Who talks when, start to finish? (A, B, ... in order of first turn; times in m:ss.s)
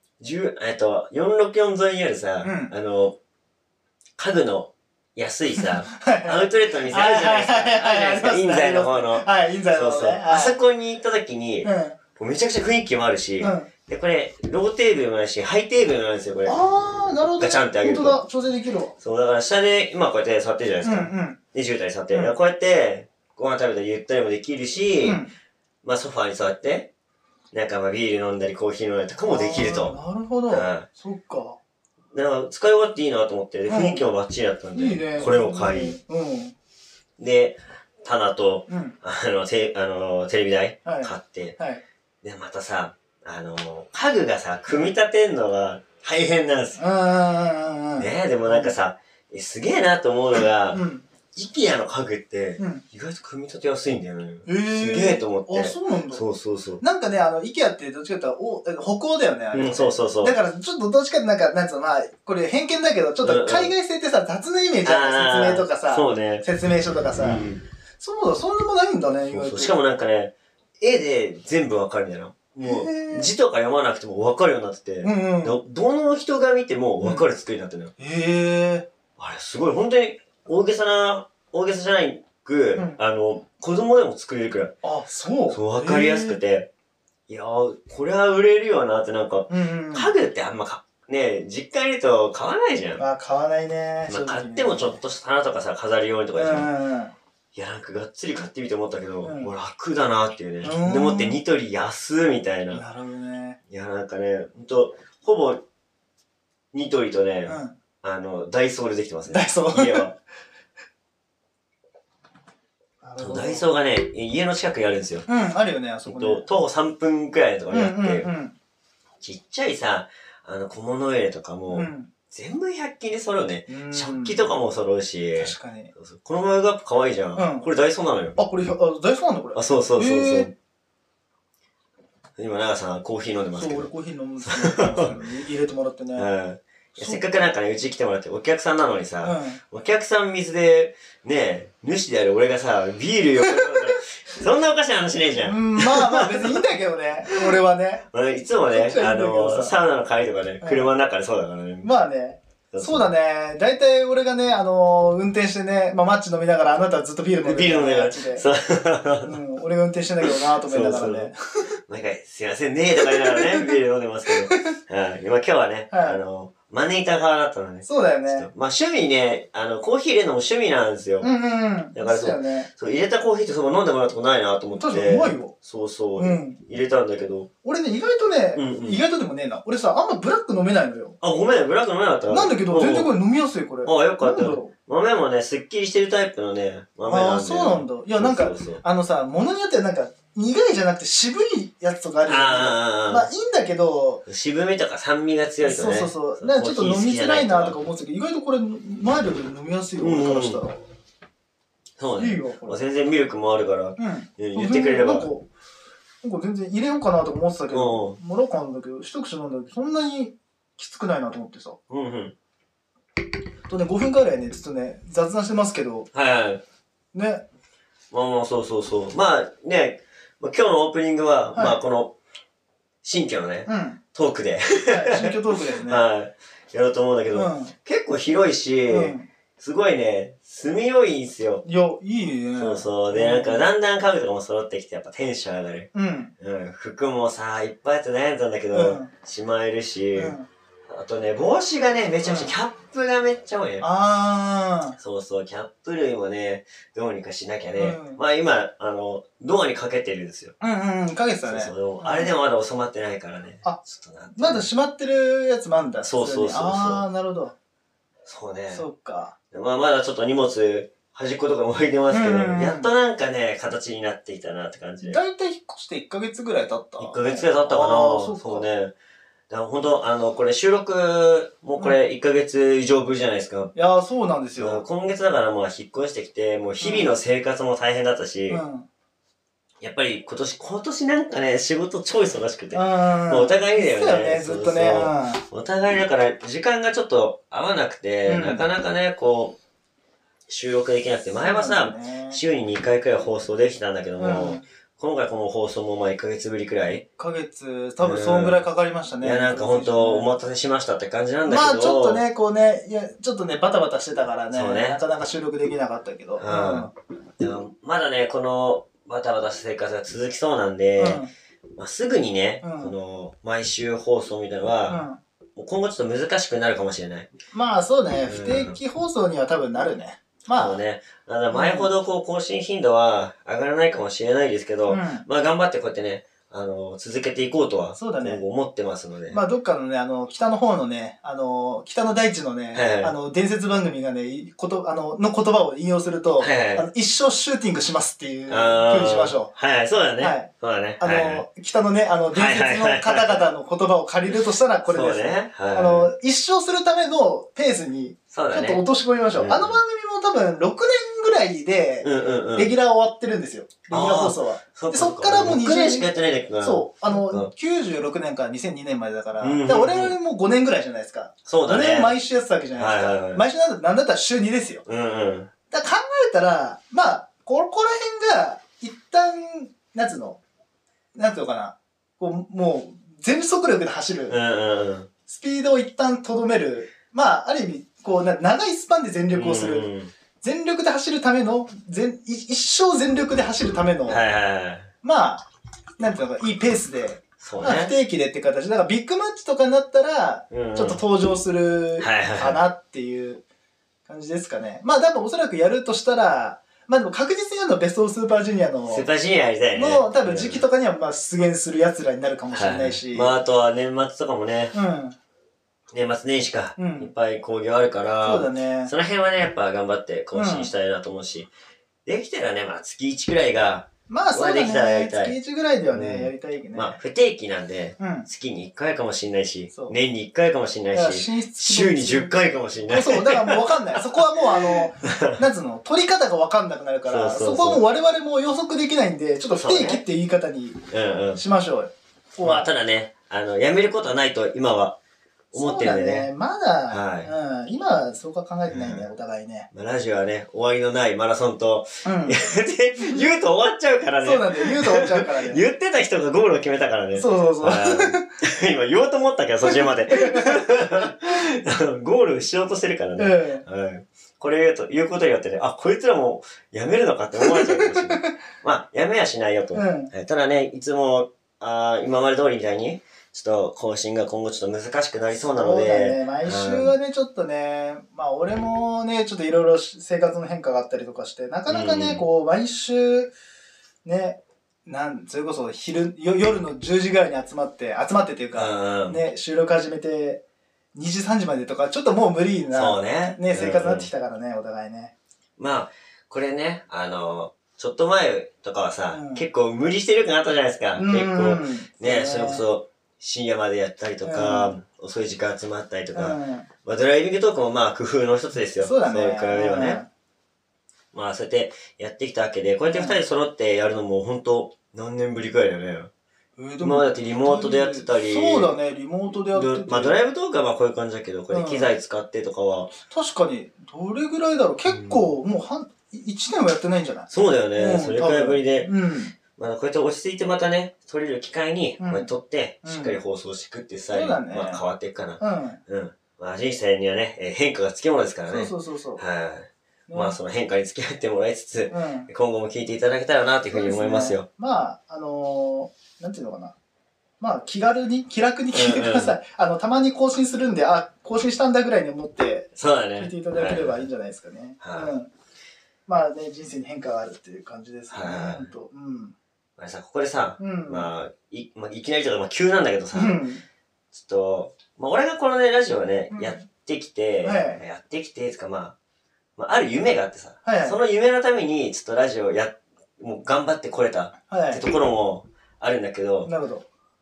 0:00.2-0:03.2 A
0:02.4-0:02.7 B
0:04.2-0:16.6 A
0:05.6-0:10.6 B
0:11.6-0:12.0 B
0:13.4-0:13.7 B
0:16.4-0:18.9 B
0:17.4-0:18.2 A
0:19.0-0:25.2 A
0:20.8-0:21.4 B
0:25.0-0:25.3 B
0:25.8-0:26.9 A
0:27.5-0:30.0 A
0:29.2-0:31.6 B
0:30.5-0:30.9 A
0:32.1-0:36.0 A
0:33.7-0:34.0 B
0:34.7-0:36.5 B
0:37.2-0:41.6 A
0:38.7-0:38.9 B
0:40.8-0:41.8 B
0:42.2-0:46.8 A
0:46.8-0:48.7 B
0:48.0-0:50.8 A
0:50.7-0:51.0 B
0:51.3-0:56.8 A
0:52.6-0:52.8 B
0:54.4-0:56.2 B
0:56.8-1:07.4 B
0:59.5-1:00.4 A
1:03.2-1:03.7 A
1:04.8-1:06.4 A
1:07.1-1:07.6 A
1:08.0-1:09.7 B
1:09.3-1:17.9 A
1:12.6-1:13.3 B
1:15.0-1:15.6 B
1:18.0-1:18.9 B
1:19.2-1:24.8 A
1:24.8-1:26.4 B
1:25.5-1:26.7 A
1:27.3-1:33.0 A
1:29.5-1:30.1 B
1:33.0-1:35.0 B
1:34.1-1:36.7 A
1:36.4-1:37.1 B
1:37.5-1:42.8 A
1:39.2-1:39.5 B
1:40.6-1:41.4 B
1:42.7-1:43.6 B
1:43.7-1:45.6 A
1:46.7-1:50.1 A
1:47.4-1:47.7 B
1:49.3-1:50.1 B
1:53.0-1:53.7 B
1:53.2-1:55.2 A
1:55.3-1:56.4 B
1:56.1-1:58.3 A
1:57.7-1:58.5 B
1:59.2-2:08.4 A
2:01.7-2:02.1 B
2:03.7-2:04.5 B
2:05.4-2:05.9 B
2:07.4-2:07.7 B
2:08.4-2:10.5 B
2:09.5-2:10.5 A
2:12.4-2:13.9 A
2:13.5-2:16.3 B
2:14.4-2:15.2 A
2:16.2-2:26.6 A
2:17.0-2:17.5 B
2:19.2-2:19.6 B
2:23.4-2:24.0 B
2:25.4-2:28.0 B
2:28.1-2:31.9 A
2:28.7-2:29.7 B
2:30.6-2:30.9 B
2:31.8-2:38.4 B
2:32.7-2:33.1 A
2:37.4-2:39.4 A
2:39.2-2:41.4 B
2:40.6-2:41.3 A
2:41.9-2:51.3 A
2:43.0-2:43.7 B
2:44.3-2:44.8 B
2:45.9-2:46.2 B
2:47.8-2:48.5 B
2:51.2-2:52.7 B
2:51.9-2:57.5 A
2:54.7-2:55.5 B
2:56.2-2:56.6 B
2:57.6-3:01.2 B
2:58.5-2:59.0 A
3:01.2-3:03.1 A
3:02.3-3:04.7 B
3:03.8-3:08.8 A
3:07.0-3:14.2 B
3:12.2-3:13.3 A
3:14.2-3:17.8 A
3:15.6-3:20.8 B
3:20.0-3:20.6 A
3:22.0-3:25.3 A
3:22.2-3:22.8 B
3:24.0-3:25.5 B
3:26.2-3:31.8 B
3:27.7-3:28.2 A
3:31.9-3:32.3 A
3:33.7-3:36.1 B
3:36.1-3:36.6 A
3:37.1-3:37.4 B
3:38.1-3:42.1 A
3:43.0-3:51.6 A
3:43.7-3:44.0 B
3:44.9-3:46.0 B
3:47.3-3:47.7 B
3:48.9-3:49.3 B
3:51.6-3:53.6 B
3:52.5-4:00.3 A
3:55.9-3:56.3 B
3:58.7-3:59.1 B
4:00.1-4:00.5 B
4:00.9-4:03.8 A
4:02.2-4:02.5 B
4:03.8-4:05.0 B
4:05.0-4:10.5 A
4:07.8-4:08.2 B
4:10.6-4:12.3 B
4:11.4-4:14.6 A
4:14.4-4:17.5 B
4:16.0-4:17.0 A
4:18.2-4:18.8 A
4:18.7-4:19.3 B
4:19.5-4:25.2 A
4:22.1-4:22.9 B
4:25.0-4:28.6 B
4:27.0-4:28.9 A
4:29.5-4:33.7 A
4:33.7-4:34.8 B
4:34.6-4:38.6 A
4:36.8-4:37.1 B
4:38.5-4:38.9 B
4:39.8-4:49.6 A
4:42.7-4:45.4 B
4:48.2-4:48.6 B
4:50.5-4:57.0 A
4:51.4-4:52.4 B
4:54.2-4:54.6 B
4:57.2-5:00.3 B
4:58.0-4:58.6 A
4:59.2-5:02.2 A
5:01.4-5:06.9 B
5:04.5-5:05.0 A
5:06.4-5:11.2 A
5:11.0-5:11.3 B
5:11.8-5:15.0 A
5:12.6-5:12.9 B
5:14.9-5:15.2 B
5:15.6-5:17.3 A
5:17.5-5:20.8 B
5:18.3-5:18.8 A
5:20.5-5:29.4 A
5:21.5-5:21.9 B
5:24.9-5:25.2 B
5:28.0-5:28.4 B
5:29.3-5:39.5 B
5:32.7-5:33.1 A
5:36.4-5:36.8 A
5:38.5-5:41.4 A
5:40.2-5:56.1 B
5:42.3-5:43.4 A
5:44.9-5:46.1 A
5:48.3-5:48.8 A
5:49.4-5:49.8 A
5:52.0-5:52.7 A
5:53.9-5:57.5 A
5:56.6-6:04.8 B
5:59.4-6:00.1 A
6:01.4-6:02.1 A
6:02.7-6:03.4 A
6:04.8-6:05.5 A
6:05.7-6:10.4 B
6:11.1-6:14.4 B
6:14.3-6:15.1 A
6:15.3-6:24.2 B
6:19.3-6:20.1 A
6:24.1-6:24.9 A
6:25.0-6:25.4 B
6:26.0-6:33.4 B
6:27.4-6:27.9 A
6:30.5-6:31.0 A
6:32.0-6:32.6 A
6:34.1-6:39.1 B
6:38.9-6:40.6 A
6:39.7-6:43.3 B
6:42.5-6:44.7 A
6:44.7-6:45.2 B
6:45.9-6:51.5 A
6:46.8-6:47.1 B
6:48.2-6:48.9 B
6:50.3-6:50.7 B
6:52.0-6:55.4 A
6:54.1-6:57.0 B
6:55.9-7:05.4 A
6:58.0-6:58.3 B
7:00.9-7:02.3 B
7:02.8-7:10.8 B
7:07.1-7:07.8 A
7:09.5-7:10.0 A
7:10.9-7:11.4 A
7:11.3-7:12.7 B
7:12.4-7:15.0 A
7:15.5-7:16.3 A
7:15.5-7:19.7 B
7:16.9-7:17.3 A
7:18.7-7:19.0 A
7:19.7-7:46.9 A
7:22.0-7:22.4 B
7:23.0-7:23.2 B
7:24.2-7:25.6 B
7:27.1-7:28.3 B
7:29.6-7:30.6 B
7:33.2-7:33.6 B
7:37.4-7:38.3 B
7:39.7-7:40.1 B
7:45.3-7:53.3 B
7:51.7-7:52.2 A
7:54.0-8:00.4 B
7:58.5-7:59.2 A
8:00.9-8:05.1 B
8:02.7-8:04.1 A
8:05.6-8:20.0 A
8:09.1-8:09.4 B
8:11.0-8:12.6 B
8:14.2-8:14.7 B
8:16.1-8:16.7 B
8:18.8-8:20.1 B
8:21.1-8:26.1 A
8:22.9-8:23.2 B
8:26.6-8:30.2 B
8:26.8-8:28.7 A
8:29.5-8:32.9 A
8:31.5-8:31.9 B
8:33.0-8:39.3 B
8:34.9-8:35.3 A
8:37.3-8:38.9 A
8:39.5-8:54.4 A
8:42.0-8:42.3 B
8:42.8-8:43.2 B
8:44.1-8:44.8 B
8:45.4-8:45.8 B
8:48.5-8:49.2 B
8:50.1-8:50.4 B
8:51.9-8:52.3 B
8:53.7-8:56.7 B
8:57.4-9:05.3 B
8:58.7-8:59.4 A
9:02.8-9:04.1 A
9:04.8-9:05.1 A
9:06.1-9:09.3 B
9:08.1-9:08.7 A
9:09.8-9:13.4 A
9:10.6-9:11.1 B
9:13.1-9:13.6 B
9:14.1-9:18.9 A
9:16.3-9:16.6 B
9:17.4-9:17.8 B
9:19.6-9:26.5 A
9:20.6-9:21.0 B
9:24.5-9:24.8 B
9:26.4-9:26.8 B